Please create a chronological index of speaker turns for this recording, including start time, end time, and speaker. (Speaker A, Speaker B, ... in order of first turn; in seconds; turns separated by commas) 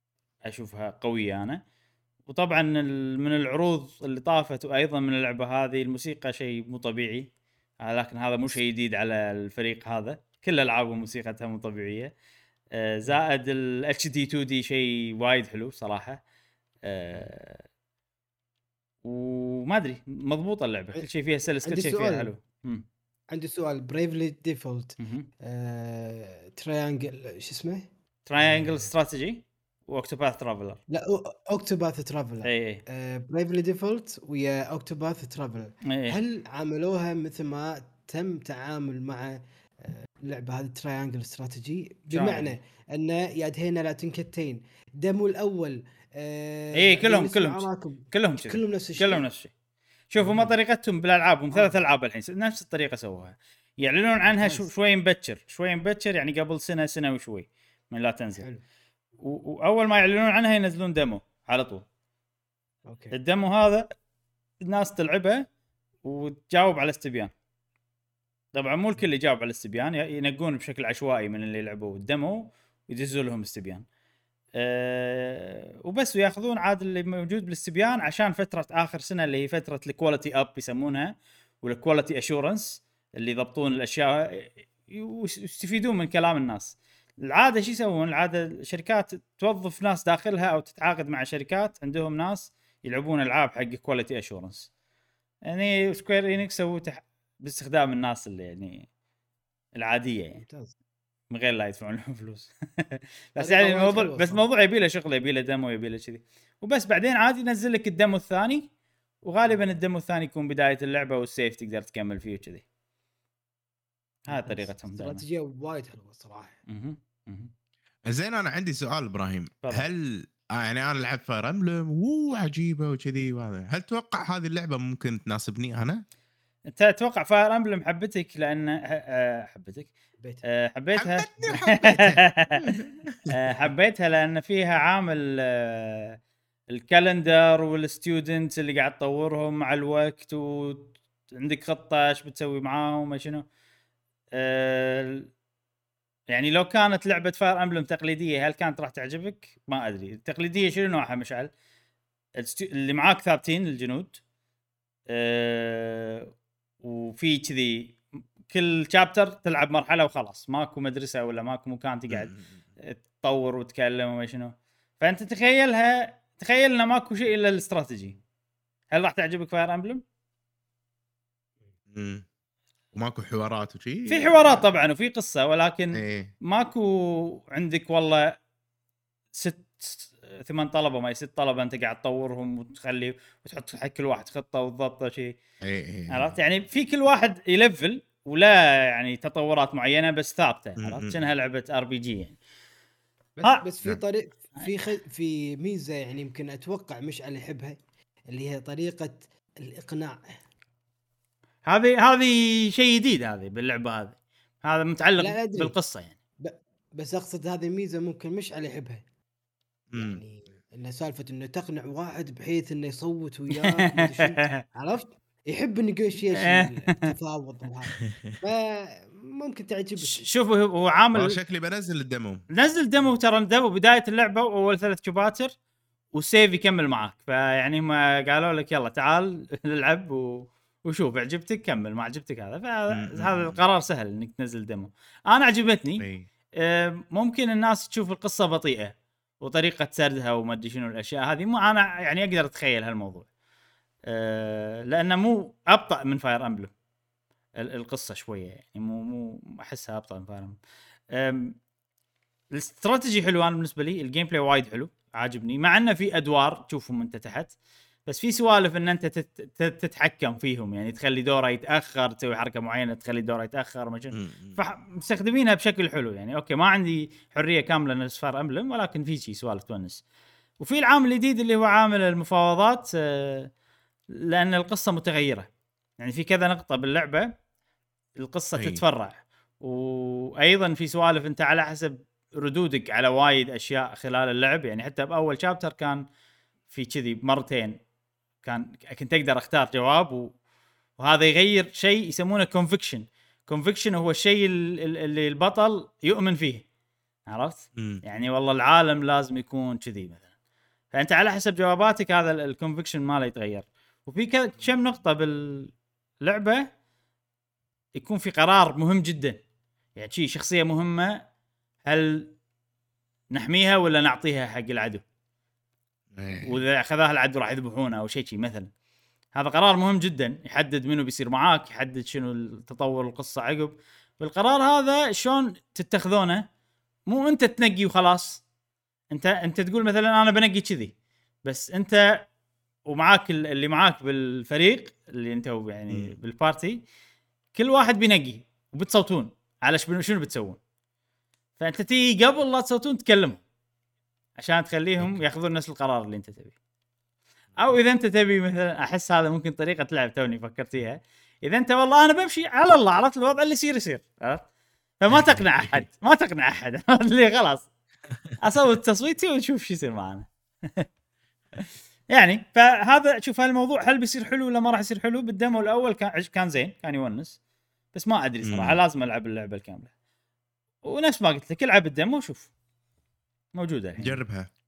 Speaker A: 0.5-1.6, Speaker A: 2.3-7.3, Speaker A: 7.8-12.1, Speaker A: 12.7-16.2, Speaker A: 16.8-17.7, Speaker A: 19.0-22.8, Speaker B: 21.6-22.3, Speaker B: 23.3-27.9, Speaker A: 25.0-25.3, Speaker A: 28.2-30.8, Speaker B: 28.4-28.9, Speaker B: 30.9-49.2, Speaker A: 32.4-32.8, Speaker A: 35.9-36.2, Speaker A: 42.1-42.5, Speaker A: 46.7-49.5, Speaker A: 50.1-58.4, Speaker B: 50.2-50.5, Speaker B: 51.5-51.8, Speaker B: 54.3-54.7, Speaker A: 59.2-61.8, Speaker B: 62.9-63.1, Speaker A: 63.1-63.9, Speaker A: 64.6-65.4, Speaker A: 66.0-67.3, Speaker A: 68.5-73.8, Speaker A: 74.5-94.7, Speaker A: 95.5-98.9, Speaker A: 99.8-100.4, Speaker B: 100.3-100.7, Speaker A: 101.3-108.7, Speaker B: 103.4-104.5, Speaker A: 109.2-112.6, Speaker B: 114.2-116.6, Speaker A: 114.3-115.2, Speaker A: 116.7-117.5, Speaker C: 118.1-126.0, Speaker A: 126.7-129.9, Speaker B: 130.2-130.4, Speaker A: 130.4-132.6, Speaker C: 131.0-133.3, Speaker A: 133.3-136.2, Speaker A: 136.7-143.4, Speaker A: 144.3-145.3, Speaker A: 146.3-151.5, Speaker A: 152.4-154.2, Speaker A: 155.1-156.3, Speaker A: 156.8-168.2, Speaker C: 162.1-162.4, Speaker A: 168.9-170.0, Speaker C: 171.9-172.2, Speaker C: 172.9-174.6, Speaker A: 174.1-178.3, Speaker C: 175.9-176.3, Speaker A: 179.3-185.3, Speaker C: 185.6-186.4, Speaker A: 186.1-192.4, Speaker C: 190.8-191.2, Speaker B: 193.4-200.2, Speaker A: 201.7-206.1, Speaker B: 205.2-205.7, Speaker B: 206.4-209.0, Speaker C: 209.9-210.2, Speaker B: 209.9-220.2, Speaker A: 213.5-214.6, Speaker A: 216.3-217.0, Speaker C: 218.0-218.3, Speaker A: 220.0-221.4, Speaker C: 221.1-222.4, Speaker A: 222.5-225.5, Speaker A: 226.1-236.0, Speaker C: 232.9-233.6, Speaker C: 236.0-236.2, Speaker A: 236.6-243.3, Speaker A: 244.1-246.7, Speaker A: 247.6-250.6, Speaker A: 251.1-251.6, Speaker A: 252.5-257.5, Speaker A: 258.1-270.0, Speaker C: 264.1-264.6, Speaker A: 270.6-273.5, Speaker A: 274.1-277.3, Speaker A: 278.2-286.0, Speaker C: 278.6-278.8, Speaker A: 286.7-287.8, Speaker A: 288.4-290.3, Speaker A: 291.0-296.6, Speaker A: 297.3-300.2, Speaker C: 297.8-298.0, Speaker A: 300.9-305.7, Speaker A: 306.2-306.6, Speaker A: 307.9-309.4, Speaker A: 309.9-311.2, Speaker A: 311.8-312.3, Speaker A: 313.3-315.0, Speaker C: 316.1-316.6, Speaker A: 316.4-318.7, Speaker A: 319.3-326.4, Speaker A: 327.1-328.4, Speaker A: 329.1-330.9, Speaker A: 331.4-332.1, Speaker A: 332.9-336.8, Speaker A: 337.5-340.6, Speaker A: 341.6-343.4, Speaker A: 344.4-346.5, Speaker A: 347.6-354.5, Speaker A: 355.0-357.7, Speaker C: 355.1-355.8, Speaker A: 358.4-360.9, Speaker A: 361.6-367.4, Speaker A: 367.9-369.9, Speaker C: 368.4-368.8, Speaker A: 370.9-372.5, Speaker A: 373.6-374.2, Speaker C: 374.0-374.5